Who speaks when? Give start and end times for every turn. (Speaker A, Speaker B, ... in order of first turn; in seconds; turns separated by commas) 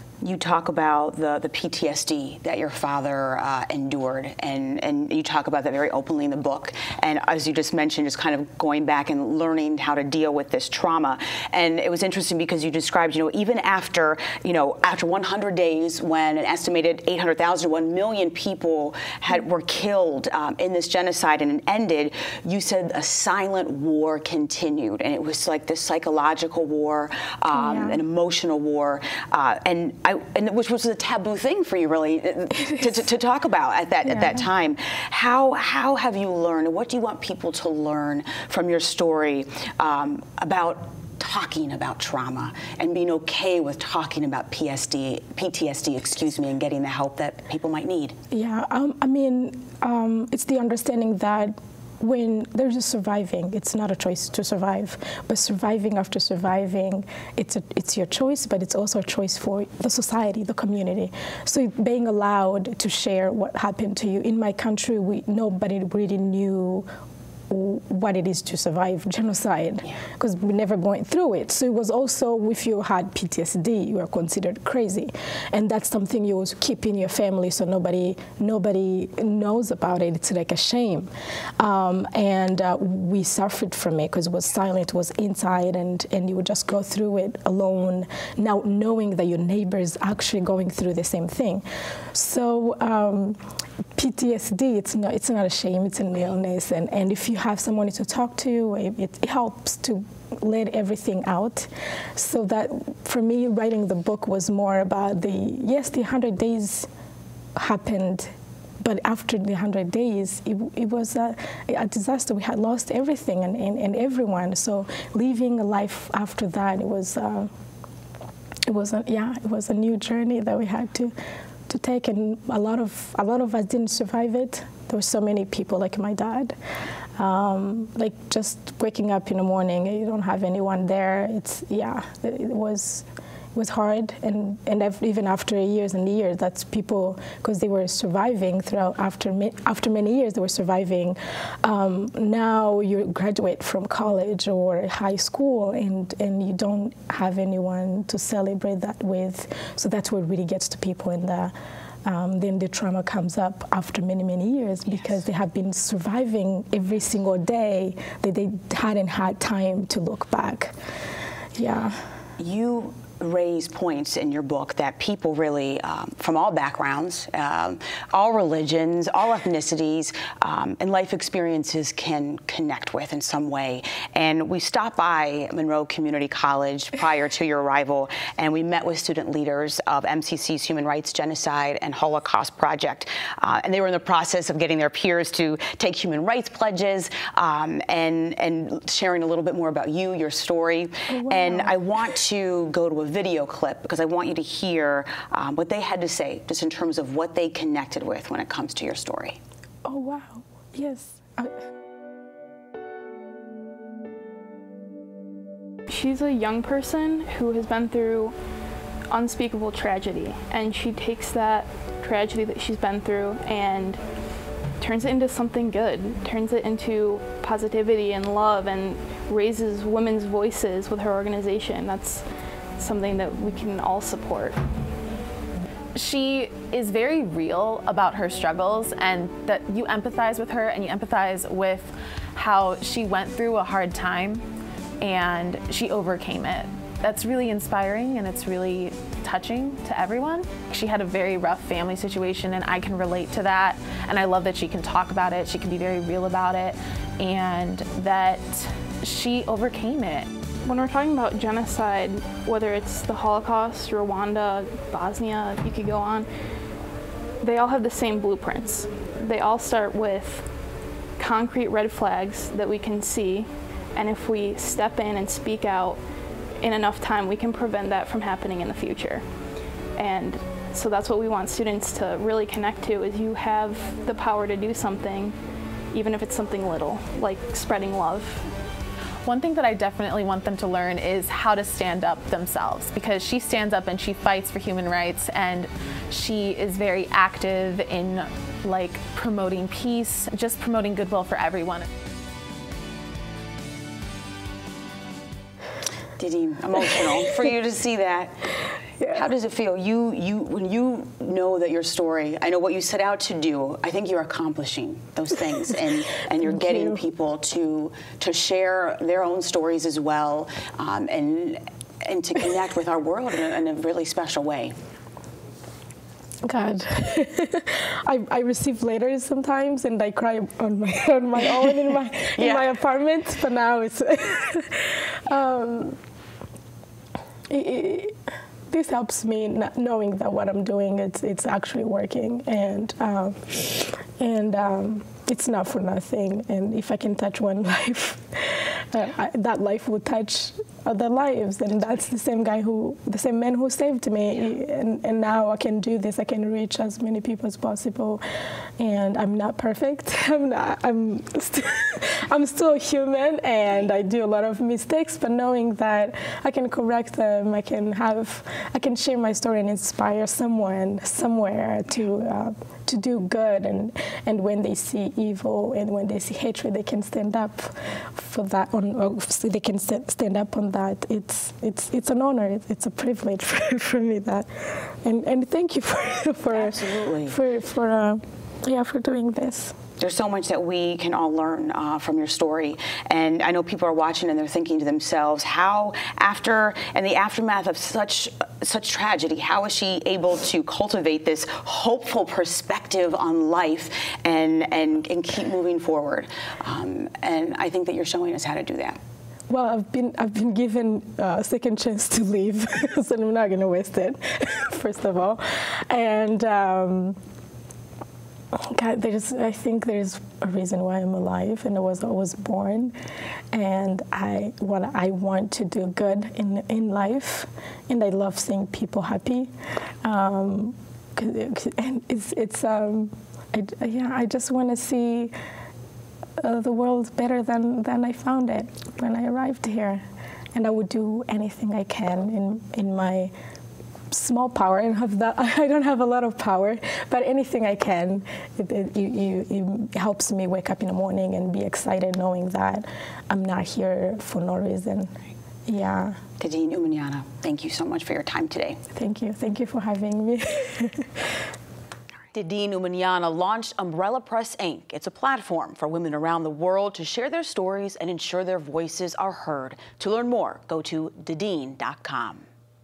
Speaker A: 0.2-48.2, Speaker B: 27.5-28.0, Speaker B: 34.1-34.5, Speaker B: 48.3-66.9, Speaker B: 67.5-93.4, Speaker B: 94.0-106.9, Speaker B: 107.6-117.5, Speaker B: 118.7-121.2, Speaker B: 121.7-126.6, Speaker B: 127.2-151.5, Speaker B: 152.1-160.8, Speaker B: 161.5-162.1, Speaker A: 162.4-199.4, Speaker B: 191.1-191.8, Speaker B: 199.8-201.6, Speaker C: 205.9-208.3, Speaker C: 209.1-214.0, Speaker C: 214.8-222.3, Speaker C: 222.8-224.6, Speaker D: 225.9-234.4, Speaker D: 235.0-250.3, Speaker C: 250.6-256.3, Speaker C: 257.4-260.5, Speaker C: 261.2-266.0, Speaker C: 266.6-269.2, Speaker C: 270.0-275.4, Speaker C: 275.9-278.5, Speaker D: 279.2-291.9, Speaker A: 296.2-298.5, Speaker A: 299.1-314.8, Speaker B: 306.4-307.0, Speaker B: 316.4-326.0, Speaker A: 322.3-322.7, Speaker B: 327.5-328.2, Speaker B: 328.7-348.2, Speaker B: 348.8-379.8, Speaker A: 376.5-377.4, Speaker A: 380.0-399.0, Speaker B: 399.5-407.2, Speaker B: 408.5-413.0, Speaker B: 413.5-425.3, Speaker B: 426.4-433.3, Speaker B: 434.1-446.2, Speaker A: 446.4-448.8, Speaker B: 448.9-451.5, Speaker A: 452.3-462.5